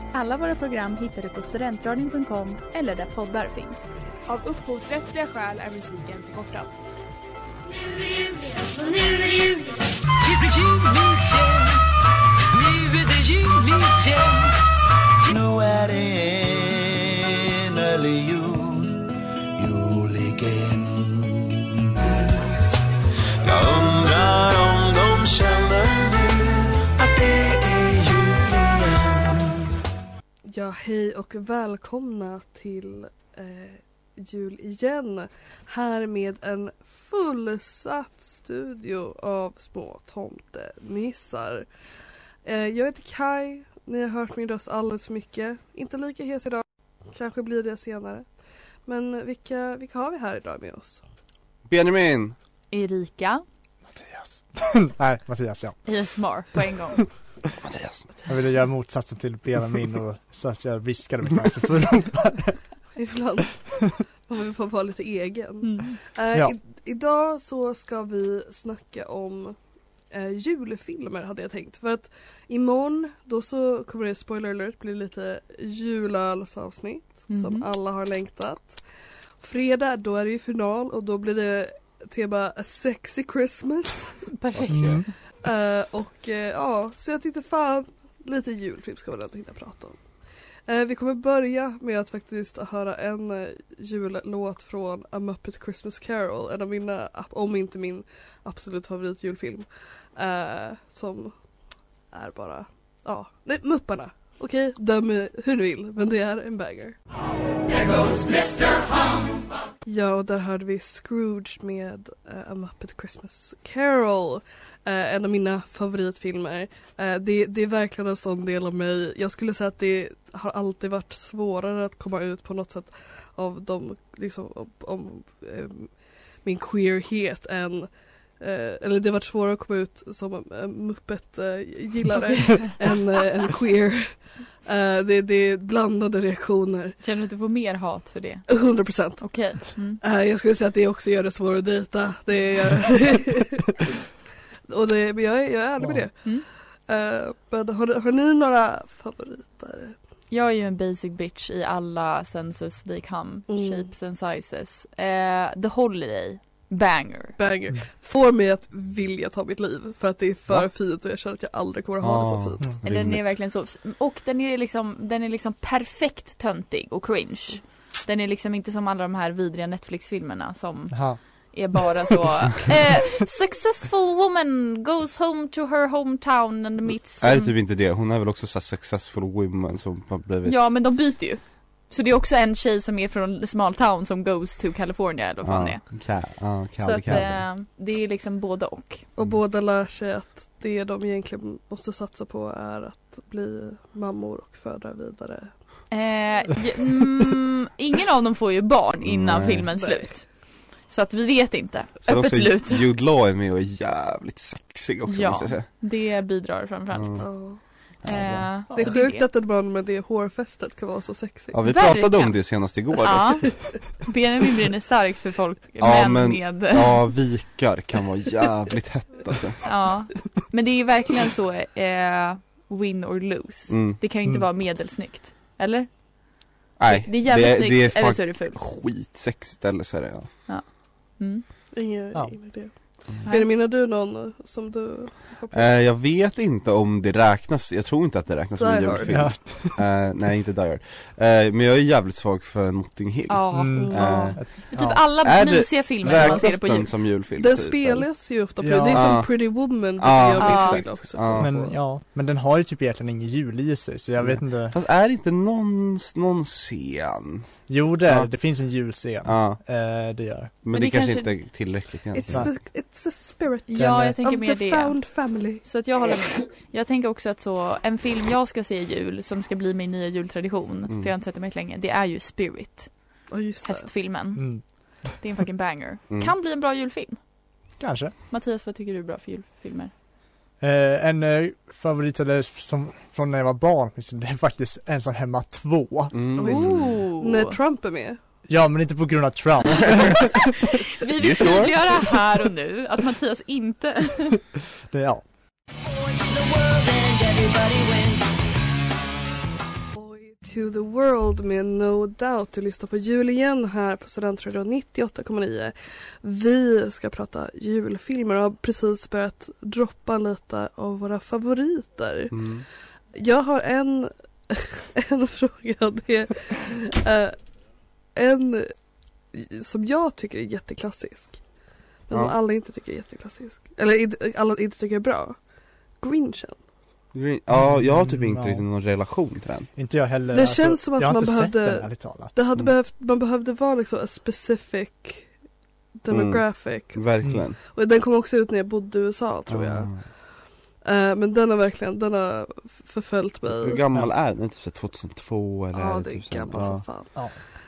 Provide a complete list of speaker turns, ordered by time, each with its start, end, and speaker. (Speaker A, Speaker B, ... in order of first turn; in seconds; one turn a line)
Speaker A: 0.1-3.9
Speaker B: 4.2-6.7
Speaker C: 9.1-9.4
Speaker B: 9.2-9.5
Speaker C: 10.2-11.8
Speaker C: 12.5-14.5
Speaker C: 15.2-19.0
Speaker C: 19.6-22.8
Speaker C: 23.4-29.7
Speaker D: 30.5-41.7
Speaker D: 42.4-48.2
Speaker D: 48.9-51.0
Speaker E: 51.7-52.4
Speaker A: 52.7-53.4
Speaker F: 53.9-55.8
Speaker A: 55.9-57.0
Speaker E: 57.6-58.0
Speaker F: 58.3-62.6
Speaker D: 63.0-69.5
Speaker A: 65.6-66.0
Speaker D: 70.1-78.8
Speaker A: 77.3-77.7
Speaker D: 79.4-84.3
Speaker A: 84.3-85.1
Speaker E: 84.5-85.0
Speaker F: 84.7-85.1
Speaker D: 85.4-90.1
Speaker D: 90.7-101.3
Speaker D: 102.1-107.0
Speaker D: 109.8-137.0
Speaker A: 137.0-140.0
Speaker D: 138.5-144.0
Speaker D: 144.7-149.9
Speaker F: 145.8-146.1
Speaker A: 150.3-157.3
Speaker D: 153.5-153.9
Speaker D: 157.4-162.7
Speaker E: 162.0-163.3
Speaker A: 162.8-177.5
Speaker F: 170.9-171.2
Speaker E: 177.2-180.6
Speaker A: 180.4-185.8
Speaker E: 185.4-187.4
Speaker A: 186.8-189.0
Speaker D: 189.2-195.5
Speaker A: 195.9-202.8
Speaker E: 199.0-199.7
Speaker D: 199.8-200.1
Speaker E: 202.0-205.7
Speaker A: 205.1-207.4
Speaker E: 206.9-207.2
Speaker D: 207.2-207.6
Speaker E: 208.0-208.5
Speaker A: 208.0-209.2
Speaker D: 208.7-211.5
Speaker E: 211.5-213.6
Speaker A: 211.6-217.0
Speaker E: 215.8-219.7
Speaker A: 219.6-228.6
Speaker E: 223.7-224.0
Speaker E: 226.8-230.3
Speaker A: 231.2-231.4
Speaker D: 231.7-235.8
Speaker E: 235.5-248.2
Speaker D: 238.6-239.3
Speaker F: 239.1-239.8
Speaker A: 243.3-246.9
Speaker F: 243.5-244.8
Speaker D: 243.8-244.3
Speaker F: 246.0-246.4
Speaker D: 247.4-251.7
Speaker F: 248.6-249.2
Speaker E: 248.8-251.6
Speaker A: 250.4-250.8
Speaker F: 251.4-254.7
Speaker E: 254.2-257.5
Speaker F: 257.7-260.5
Speaker E: 259.2-259.6
Speaker E: 260.6-262.4
Speaker A: 260.7-261.3
Speaker D: 262.1-266.3
Speaker A: 263.7-265.0
Speaker F: 263.8-264.2
Speaker A: 265.6-277.2
Speaker D: 273.3-273.9
Speaker F: 274.4-274.6
Speaker F: 277.8-278.1
Speaker A: 278.3-279.9
Speaker F: 280.6-286.1
Speaker E: 286.1-286.9
Speaker D: 286.4-288.2
Speaker A: 286.4-287.5
Speaker F: 288.5-290.4
Speaker A: 290.9-294.4
Speaker E: 291.2-291.7
Speaker F: 294.9-295.2
Speaker C: 296.1-298.2
Speaker D: 299.9-312.5
Speaker E: 312.3-312.6
Speaker D: 313.1-317.4
Speaker D: 318.1-318.7
Speaker D: 319.3-321.4
Speaker D: 322.1-325.4
Speaker D: 326.0-326.6
Speaker E: 327.1-329.7
Speaker F: 327.5-328.6
Speaker F: 329.8-332.3
Speaker D: 330.3-335.3
Speaker D: 336.0-337.0
Speaker E: 336.1-337.6
Speaker D: 337.6-340.1
Speaker E: 339.5-340.0
Speaker D: 340.8-343.8
Speaker E: 343.6-346.8
Speaker D: 345.7-347.1